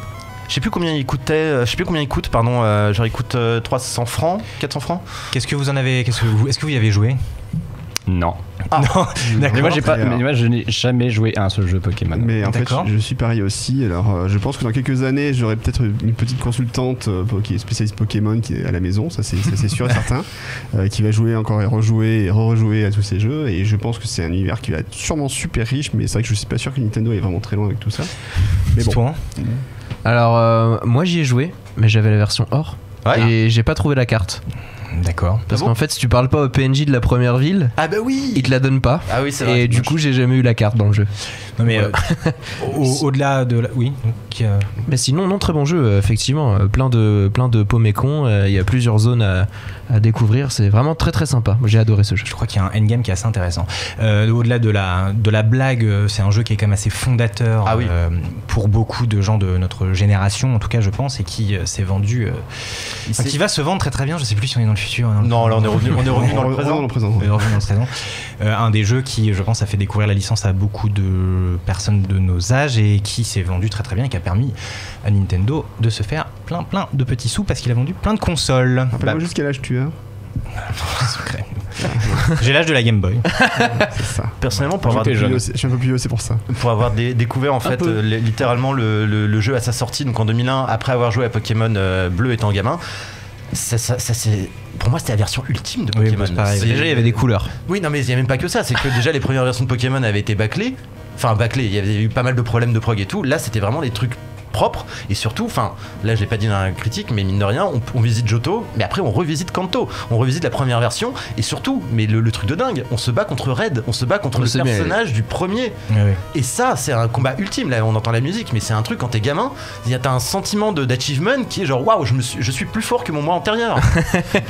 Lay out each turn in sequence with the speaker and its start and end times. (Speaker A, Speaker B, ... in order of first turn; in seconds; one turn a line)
Speaker A: 0.5-5.0
Speaker B: 5.3-7.2
Speaker C: 8.1-8.4
Speaker B: 8.7-10.1
Speaker D: 9.2-10.2
Speaker C: 9.5-12.3
Speaker D: 12.1-29.6
Speaker B: 12.4-12.9
Speaker B: 28.8-29.2
Speaker E: 30.1-34.4
Speaker B: 34.9-35.5
Speaker E: 35.5-37.8
Speaker A: 37.8-38.5
Speaker E: 38.3-41.1
Speaker A: 39.1-39.9
Speaker B: 41.6-42.0
Speaker E: 41.6-42.4
Speaker B: 42.5-44.7
Speaker E: 44.9-52.3
Speaker B: 52.2-66.5
Speaker A: 57.7-57.9
Speaker A: 65.2-66.8
Speaker D: 66.2-67.3
Speaker B: 67.2-79.0
Speaker D: 78.9-79.9
Speaker B: 80.6-83.3
Speaker D: 81.8-82.2
Speaker D: 83.8-86.5
Speaker A: 84.4-85.2
Speaker C: 84.8-85.4
Speaker A: 86.5-92.8
Speaker E: 87.6-88.0
Speaker A: 93.5-97.0
Speaker B: 95.9-97.2
Speaker E: 96.6-97.5
Speaker A: 97.7-115.8
Speaker E: 114.3-115.0
Speaker B: 115.9-116.2
Speaker A: 116.3-124.1
Speaker E: 124.0-124.4